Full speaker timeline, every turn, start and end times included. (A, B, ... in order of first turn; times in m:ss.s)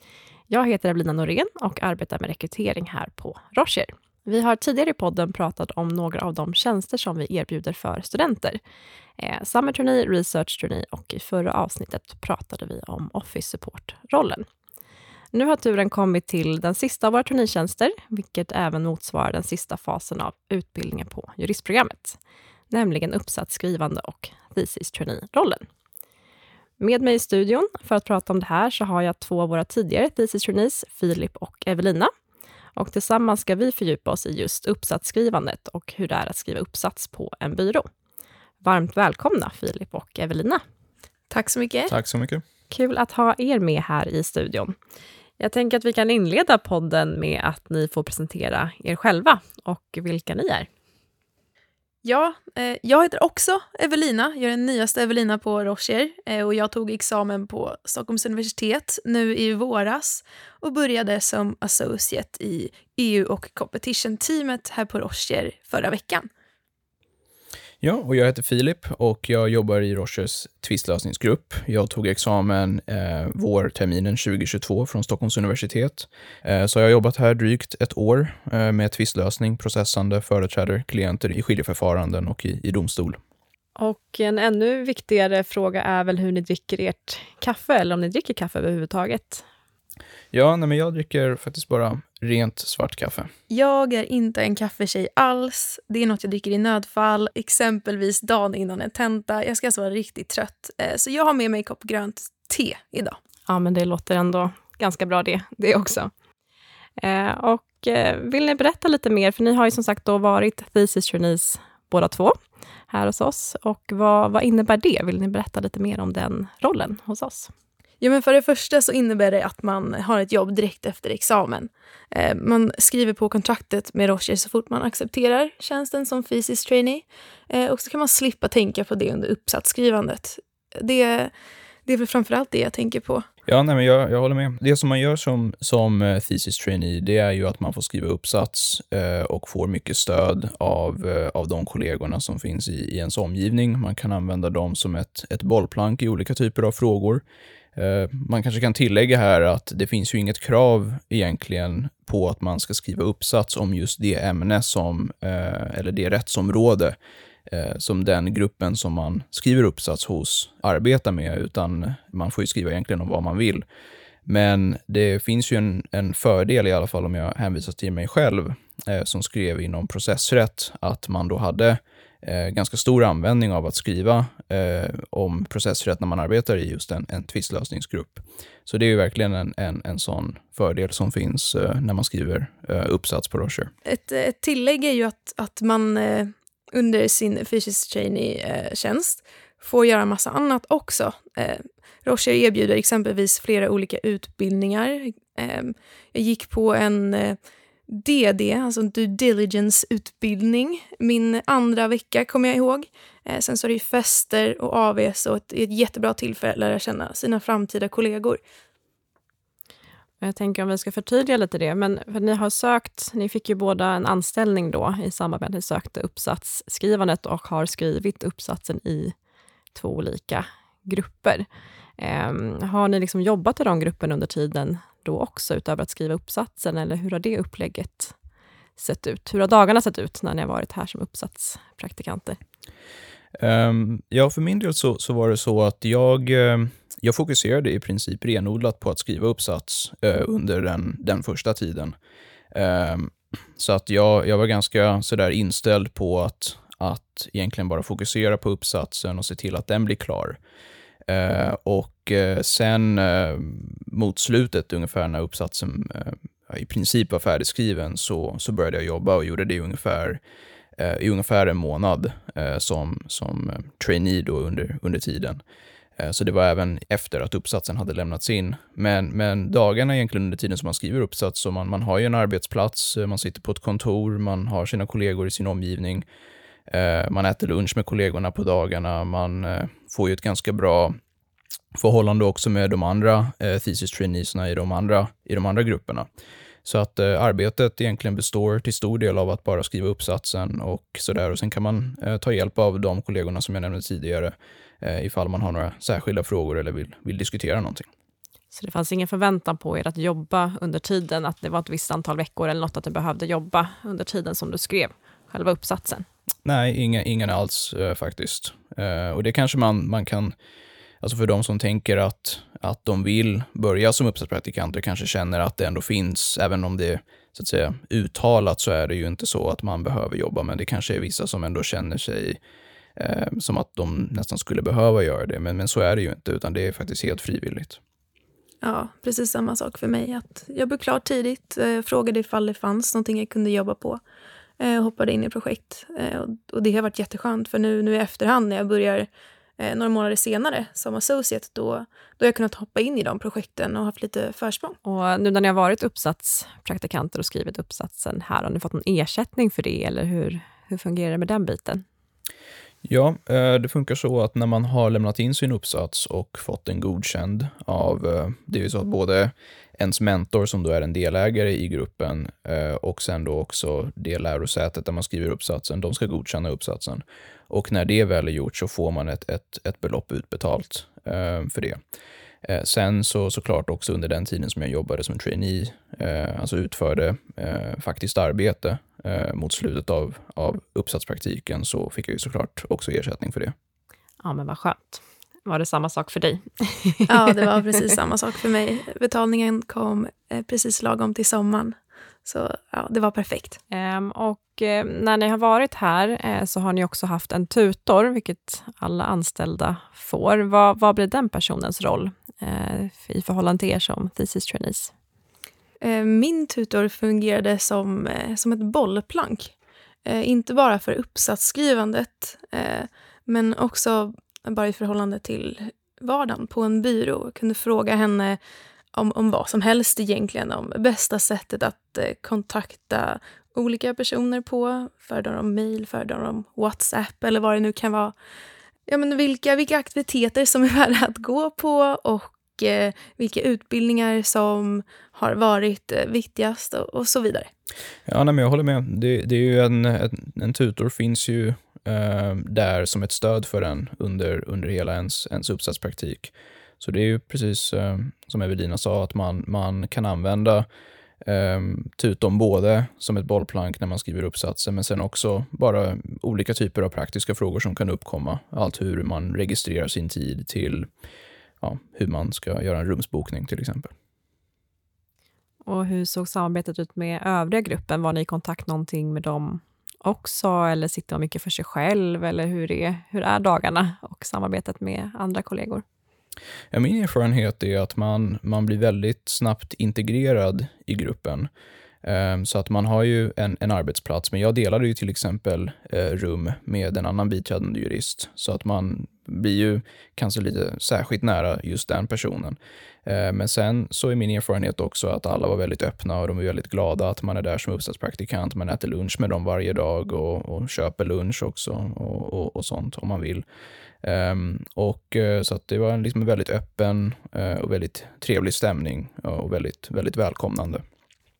0:00.5-0:08.6 A
0:09.2-0:14.4 A
0:15.3-0:22.2 A
0:22.7-0:25.6 A
0:26.8-0:32.1 A
0:32.7-0:37.9 A
0:38.6-0:40.6 A
0:41.3-0:41.9 B
0:41.9-0:42.4 C
0:42.7-0:44.7 A
0:45.4-0:50.7 A
0:52.0-1:06.3 B
1:07.8-1:23.2 C
1:23.8-1:29.4 A
1:30.3-1:33.3 C
1:33.5-1:43.2 B
1:43.5-1:46.1 A
1:47.0-1:57.5 A
1:58.0-2:11.3 B
2:11.8-2:13.2 B
2:13.4-2:27.2 C
2:27.7-2:37.0 C
2:37.5-2:43.6 C
2:44.2-3:03.7 C
3:03.8-3:28.4 B
3:30.2-3:39.1 A
3:39.7-3:41.5 A
3:42.0-3:48.1 A
3:48.8-3:52.4 A
3:53.4-4:01.9 C
4:02.5-4:10.4 C
4:11.1-4:20.2 C
4:20.8-4:25.4 C
4:26.0-4:36.0 C
4:36.7-4:41.0 C
4:41.7-4:46.0 C
4:46.6-4:57.9 C
4:58.5-5:06.0 A
5:06.4-5:10.3 C
5:11.0-5:22.4 C
5:23.0-5:27.8 C
5:28.6-5:34.0 B
5:34.6-5:39.1 B
5:39.6-5:44.8 B
5:44.8-5:51.8 A
5:52.8-6:11.8 C
6:12.4-6:23.5 C
6:24.2-6:27.8 A
6:27.1-6:33.6 B
6:33.7-6:44.9 A
6:45.8-6:49.5 B
6:50.0-6:58.4 B
6:58.9-7:08.1 B
7:08.9-7:17.5 B
7:18.1-7:30.7 C
7:31.2-7:40.9 C
7:41.6-7:43.9 C
7:45.6-7:55.8 A
7:56.7-8:01.5 C
8:02.0-8:23.4 C
8:24.0-8:30.8 C